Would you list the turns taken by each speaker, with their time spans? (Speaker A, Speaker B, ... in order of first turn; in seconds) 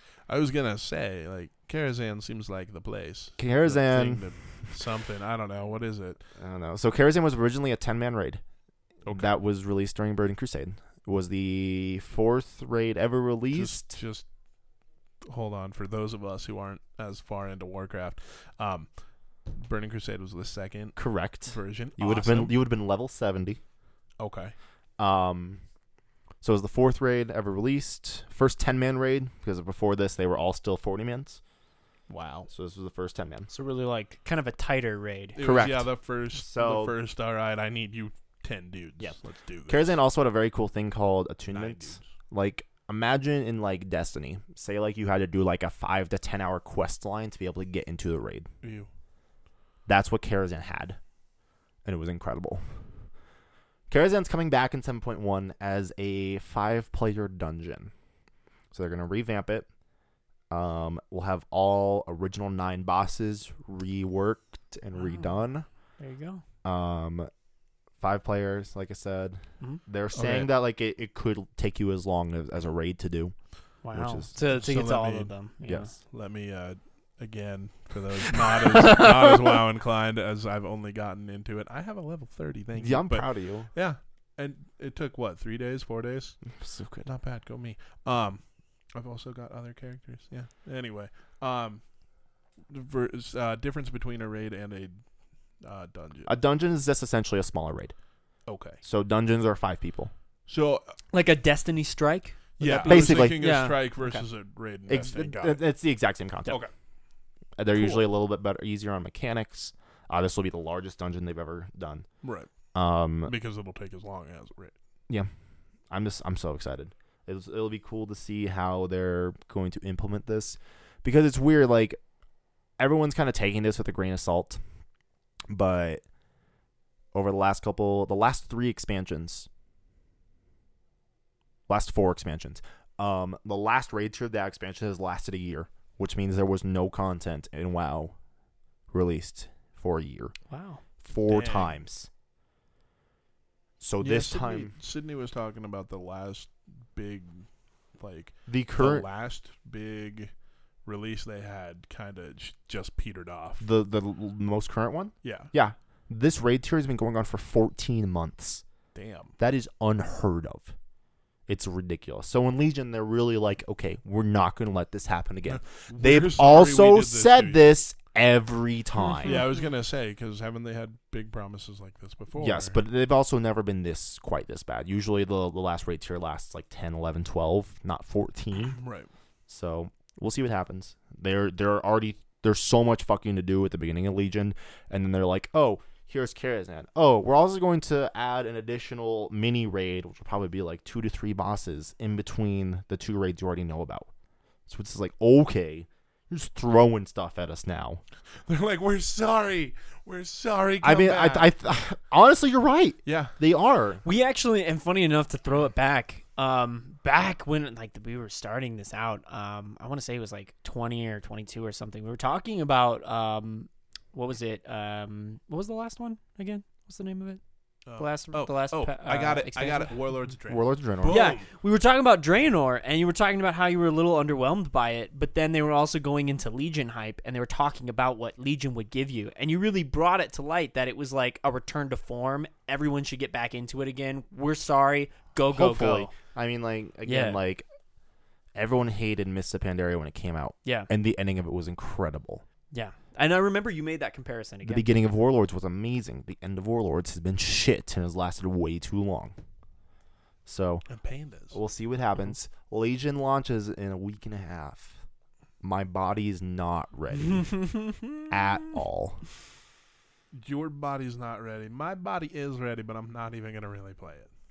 Speaker A: 0.3-6.2, 9.1-9.4, 13.5-14.3, 15.2-18.9, 19.5-22.6, 24.2-24.5, 32.1-32.5, 35.4-40.0, 41.5-42.1, 48.6-48.9, 70.1-70.5, 74.4-75.3, 76.0-86.4, 87.0-91.8, 92.7-95.0, 95.6-96.3, 98.5-98.8, 100.5-100.8, 102.6-105.6, 112.2-112.5, 113.2-114.7, 141.3-141.8, 144.0-150.3, 150.8-153.6, 155.2-155.5, 158.9-159.3, 165.5-167.7, 169.2-172.8, 178.7-179.1, 198.5-201.5, 203.1-203.3, 217.9-221.4, 250.9-251.6, 260.3-264.3
Speaker B: 3.4-4.3, 6.4-8.4, 9.1-14.0, 21.0-23.6, 25.0-25.6, 26.4-31.4, 32.5-33.5, 35.4-37.0, 39.0-48.5, 49.9-51.0, 51.9-52.6, 53.9-57.9, 58.7-59.7, 60.5-65.7, 66.6-67.3, 68.0-73.3, 73.9-74.3, 75.7-76.0, 82.8-83.7, 86.5-87.1, 96.3-97.9, 98.8-100.1, 102.8-103.5, 104.9-106.6, 107.6-112.1, 112.7-113.3, 115.9-122.0, 122.8-124.6, 125.5-126.0, 127.1-129.5, 131.7-138.2, 138.9-140.3, 141.0-142.1, 143.8-144.7, 148.5-149.1, 153.6-158.6, 159.4-160.7, 161.5-169.5, 172.4-178.8, 179.5-194.1, 194.7-198.0, 200.8-204.0, 220.5-221.3, 235.5-237.7, 238.6-242.4, 244.6-249.3, 250.5-250.8, 251.5-255.0, 255.6-257.6, 258.3-259.2
Speaker C: 33.5-35.4, 65.0-65.3, 66.0-66.4, 73.8-75.9, 101.1-104.2, 107.8-108.0, 140.5-140.8, 169.2-169.6, 204.1-217.4, 218.0-219.9, 221.1-236.1, 237.1-237.4, 242.7-244.9, 257.2-258.3